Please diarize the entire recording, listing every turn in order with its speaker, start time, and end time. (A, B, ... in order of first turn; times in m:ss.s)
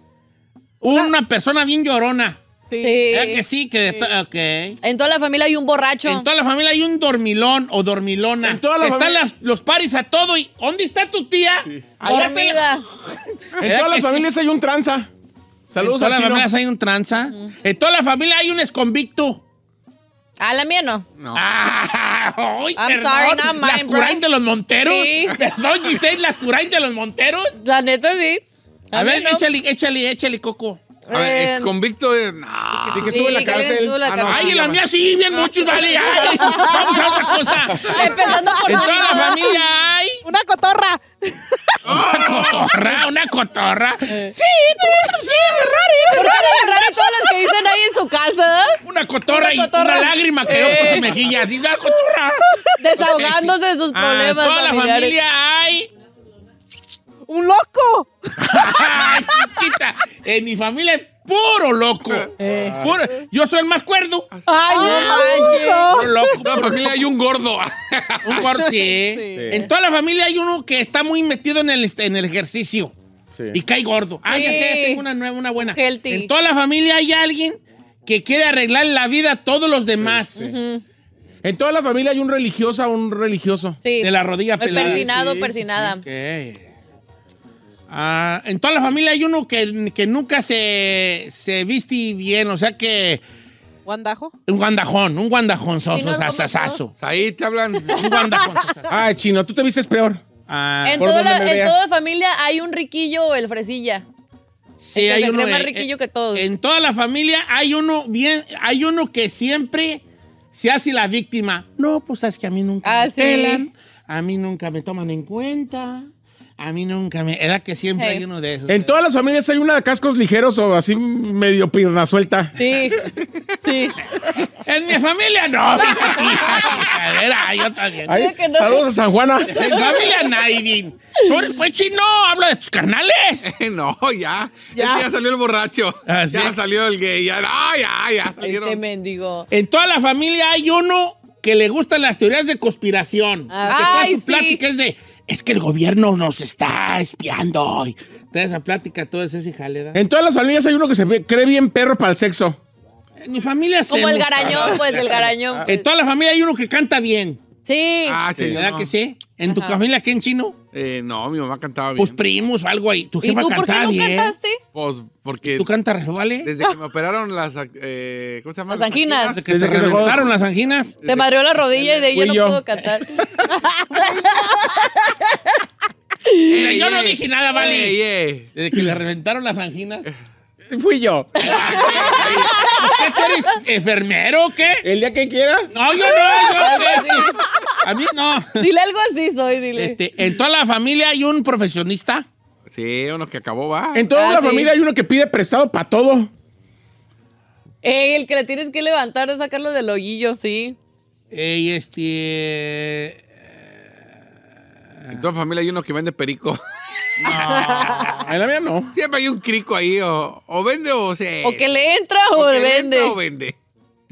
0:00.8-0:02.4 A
0:02.7-0:03.0 B
0:02.8-0:03.4 C
0:03.1-0:04.8 A
0:04.8-0:06.3 C
0:06.0-0:14.2 A
0:08.4-0:09.2 D
0:12.0-0:12.8 C
0:13.6-0:15.1 D
0:15.7-0:16.5 D
0:15.8-0:19.4 A
0:20.4-0:21.0 C
0:21.2-0:21.4 E
0:21.3-0:27.5 A
0:22.8-0:24.2 C
0:24.8-0:25.4 C
0:27.6-0:29.4 C
0:28.9-0:30.8 A
0:31.1-0:31.7 C
0:31.1-0:33.4 E
0:32.9-0:34.0 D
0:33.0-0:34.6 C
0:34.0-0:36.1 E
0:34.2-0:38.0 A
0:36.3-0:37.5 B
0:37.8-0:39.6 C
0:38.1-0:39.6 B
0:38.6-0:40.2 A
0:40.2-0:42.0 B
0:41.8-0:42.7 E
0:41.9-0:46.4 A
0:45.3-0:46.6 B
0:46.1-0:51.1 C
0:48.8-0:55.9 A
0:50.5-0:51.3 B
0:52.8-0:55.2 C
0:57.3-0:59.6 B
0:58.4-1:07.0 A
1:02.4-1:02.8 C
1:04.5-1:06.4 B
1:04.6-1:06.0 C
1:06.4-1:08.5 E
1:08.2-1:12.9 A
1:08.8-1:09.6 B
1:09.3-1:09.6 D
1:13.5-1:20.5 A
1:14.2-1:15.0 C
1:15.7-1:16.3 C
1:20.0-1:20.5 D
1:20.4-1:20.8 C
1:21.4-1:23.8 D
1:23.8-1:26.0 C
1:24.0-1:26.7 A
1:24.6-1:25.4 D
1:27.9-1:33.2 A
1:33.8-1:34.3 B
1:34.5-1:36.9 A
1:35.9-1:36.8 C
1:37.0-1:38.1 E
1:37.9-1:39.0 A
1:38.9-1:40.2 D
1:40.5-1:41.0 A
1:40.8-1:44.0 C
1:41.0-1:41.8 D
1:44.8-1:50.0 A
1:44.9-1:46.5 C
1:50.5-1:58.9 A
1:52.8-1:53.7 C
1:58.0-1:58.2 C
1:58.7-2:02.7 D
2:02.6-2:03.0 C
2:03.6-2:04.1 C
2:04.6-2:08.2 A
2:08.1-2:10.0 D
2:08.1-2:08.9 C
2:09.5-2:13.5 A
2:09.5-2:10.0 C
2:13.4-2:18.8 E
2:14.7-2:15.1 B
2:16.1-2:16.6 A
2:18.4-2:19.5 C
2:19.5-2:30.0 A
2:23.5-2:24.1 B
2:23.6-2:24.6 C
2:29.9-2:32.6 D
2:33.2-2:37.4 A
2:33.9-2:35.8 C
2:34.4-2:35.7 D
2:37.6-2:38.2 C
2:38.0-2:38.9 E
2:38.5-2:40.6 A
2:39.5-2:39.8 C
2:40.7-2:42.2 E
2:42.0-2:44.3 A
2:43.2-2:44.6 C
2:44.7-2:45.7 E
2:45.6-2:46.5 A
2:46.4-2:50.3 E
2:48.7-2:49.4 C
2:49.3-2:51.0 A
2:49.5-2:50.3 D
2:51.0-2:52.1 E
2:51.0-2:53.2 C
2:52.1-2:52.6 D
2:53.6-2:54.8 B
2:53.9-2:55.1 C
2:56.2-2:56.5 C
2:56.5-2:58.5 E
2:56.5-2:58.0 A
2:58.5-3:00.0 A
3:00.7-3:02.2 D
3:01.4-3:04.8 A
3:01.8-3:02.2 E
3:01.9-3:02.4 C
3:02.5-3:03.0 B
3:04.8-3:05.7 D
3:05.7-3:07.3 A
3:06.4-3:07.7 B
3:06.6-3:07.4 C
3:07.8-3:08.6 A
3:08.6-3:10.0 C
3:09.8-3:12.2 A
3:12.7-3:14.0 E
3:13.9-3:16.3 D
3:14.1-3:14.7 C
3:17.8-3:20.8 C
3:21.3-3:23.2 A
3:25.1-3:26.6 E
3:27.2-3:27.7 E
3:27.2-3:28.3 A
3:27.7-3:28.2 B
3:28.2-3:28.9 D
3:28.9-3:31.7 E
3:31.4-3:33.2 C
3:32.3-3:33.6 E